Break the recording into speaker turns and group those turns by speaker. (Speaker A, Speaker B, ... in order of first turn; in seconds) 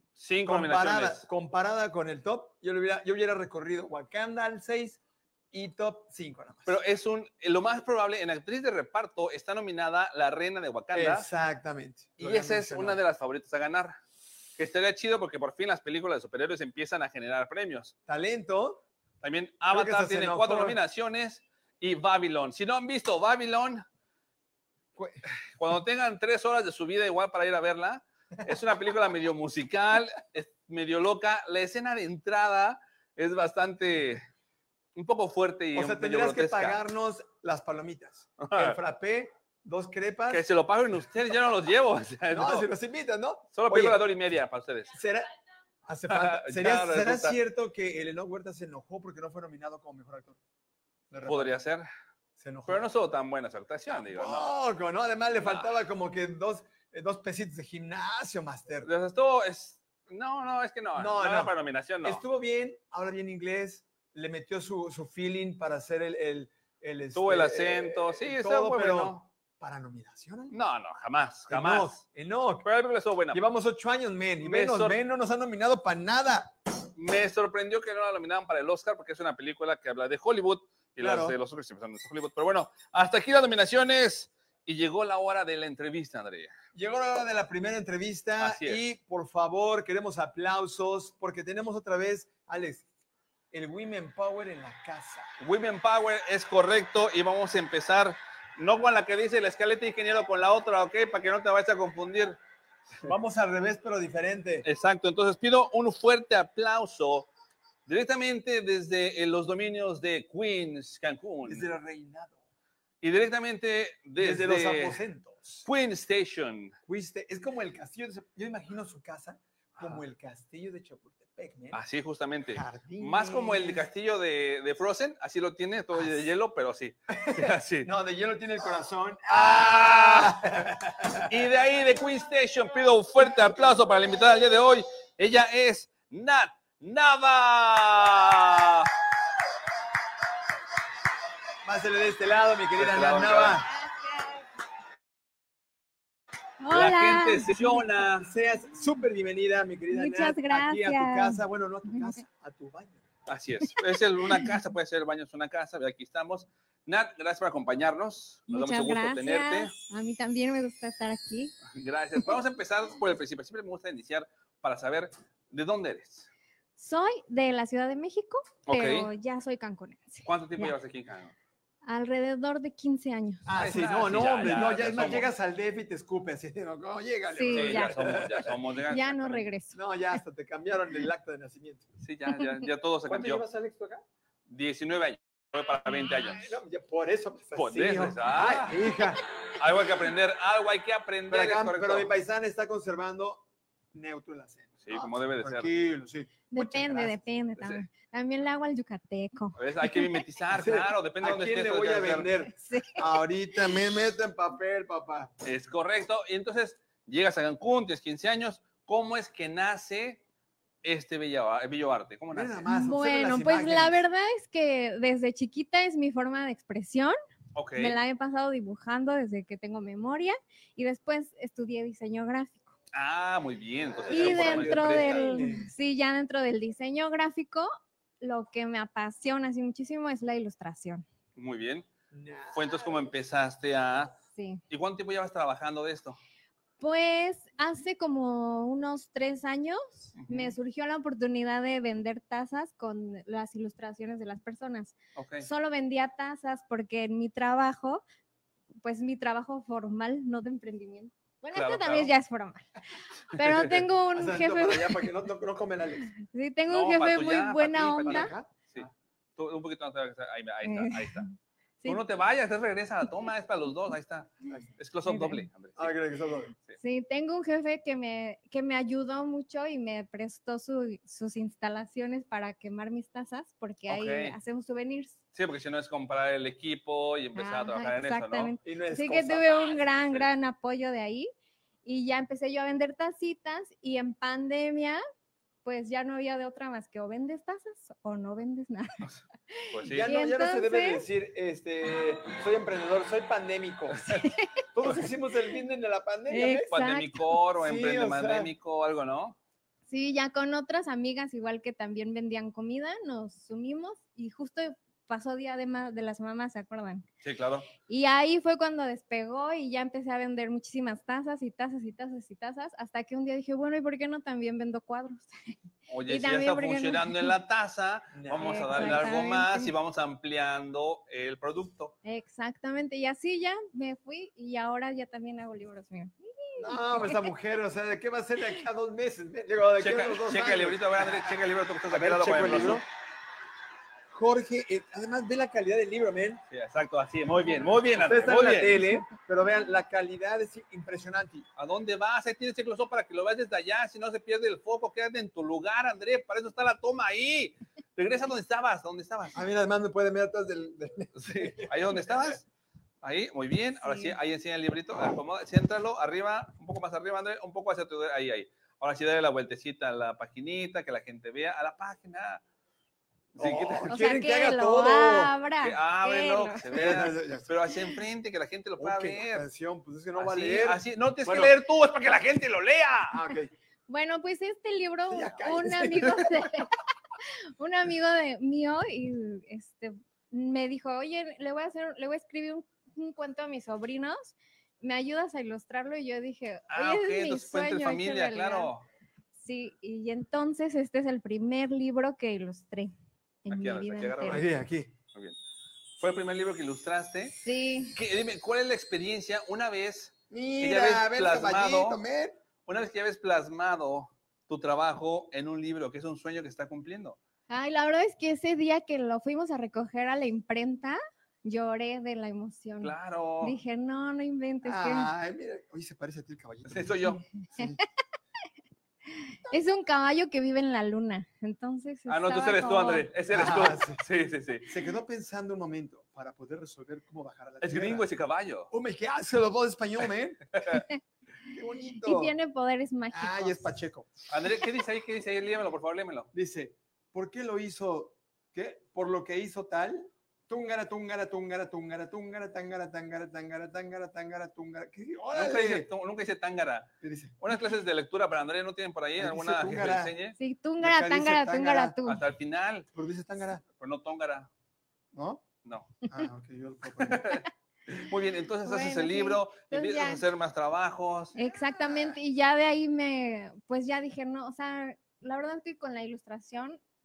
Speaker A: 0.2-1.2, 6.7-11.3, 12.2-14.0, 14.6-17.9, 19.2-23.8, 25.6-34.2, 34.9-36.8, 38.4-38.8, 40.3-42.7, 43.5-44.9, 46.1-47.4, 51.2-51.9, 52.6-54.5, 55.4-55.7, 58.8-62.2, 67.1-69.2, 70.5-72.0, 72.6-73.4, 74.4-75.0, 77.0-86.5, 88.4-88.8, 95.4-102.4, 104.6-107.3, 107.9-111.7, 113.0-115.0, 115.6-116.7, 121.7-127.9, 129.3-130.6, 131.3-138.9, 142.8-143.7, 146.7-148.3, 153.3-159.7, 161.7-166.3, 168.7-169.1, 170.2-171.3, 173.5-175.3, 177.5-179.5, 182.0-183.4, 184.5-186.5, 187.6-188.8, 189.6-192.1, 194.8-195.7, 197.6-197.8, 199.6-202.3, 205.4-210.2, 210.8-212.6, 217.5-218.0, 222.9-225.5, 231.3-231.9, 232.5-234.1, 234.7-236.2, 240.2-240.5, 245.2-245.5, 251.5-252.1, 253.3-253.7, 256.7-261.2, 261.9-265.9, 273.9-274.4, 275.3-278.5, 289.0-290.1, 296.7-299.4, 307.2-307.7, 315.9-321.9, 329.8-332.8, 336.5-338.8, 341.6-349.4, 351.1-352.5, 353.0-362.4, 363.3-364.0, 365.6-369.4, 370.1-373.2, 386.7-388.8, 393.5-394.5, 396.0-397.3, 397.9-402.0, 402.6-407.2, 412.8-413.6, 416.7-417.2, 422.1-424.6, 427.6-428.7, 434.3-436.3, 445.3-450.3, 452.0-452.9, 453.8-454.5, 455.6-456.0, 457.0-461.4
Speaker B: 0.5-5.0, 5.5-6.7, 10.9-13.0, 18.1-18.8, 19.7-20.8, 35.7-40.4, 42.3-44.0, 44.9-45.3, 45.9-50.4, 51.1-51.5, 52.4-52.8, 54.1-58.9, 61.0-61.5, 62.0-70.5, 71.5-72.7, 73.3-76.5, 81.0-81.4, 86.7-92.8, 93.5-95.3, 103.0-104.7, 111.5-112.4, 114.2-115.7, 116.9-121.8, 122.5-123.9, 127.2-131.4, 141.6-143.7, 148.2-153.0, 173.4-178.5, 179.7-181.9, 183.1-184.0, 186.3-189.2, 191.3-197.2, 200.5-205.3, 212.3-214.0, 223.9-225.7, 232.1-232.9, 254.1-256.1, 258.0-258.9, 265.8-266.5, 278.6-279.8, 289.9-294.0, 294.7-296.7, 297.6-298.5, 318.1-319.2, 326.6-331.4, 331.9-332.9, 334.1-336.4, 338.0-341.5, 349.3-351.7, 363.4-365.3, 366.7-367.5, 368.8-371.5, 373.1-373.5, 375.1-376.5, 394.2-394.9, 400.3-402.4, 414.6-416.9, 423.3-424.0, 424.7-428.1, 428.7-430.5, 431.4-432.3, 433.1-434.1, 436.3-445.9, 447.0-447.4, 449.2-450.1, 450.8-452.0, 452.9-453.6, 455.1-455.4, 456.1-457.4
Speaker C: 146.6-147.7, 149.9-152.2, 158.5-161.6, 166.8-170.7, 171.8-173.5, 177.3-178.2, 178.8-180.2, 196.5-200.2, 202.5-203.0, 212.7-217.2, 217.8-222.7, 224.1-227.7, 228.2-231.0, 234.3-234.6, 236.8-248.0, 248.8-252.7, 253.3-255.1, 256.2-258.3, 260.6-262.0, 265.1-265.5, 266.8-275.2, 277.4-281.3, 281.8-285.0, 285.6-291.0, 294.0-295.0, 296.3-297.3, 299.9-307.1, 307.9-317.3, 318.4-319.7, 322.0-327.3, 353.8-354.1, 363.9-367.0, 373.9-388.7, 389.3-392.9, 393.4-394.5, 397.3-398.0, 407.5-415.1, 417.4-417.8, 419.2-423.1, 430.7-431.0, 431.9-433.8, 450.4-452.2, 458.6-460.2, 461.4-466.8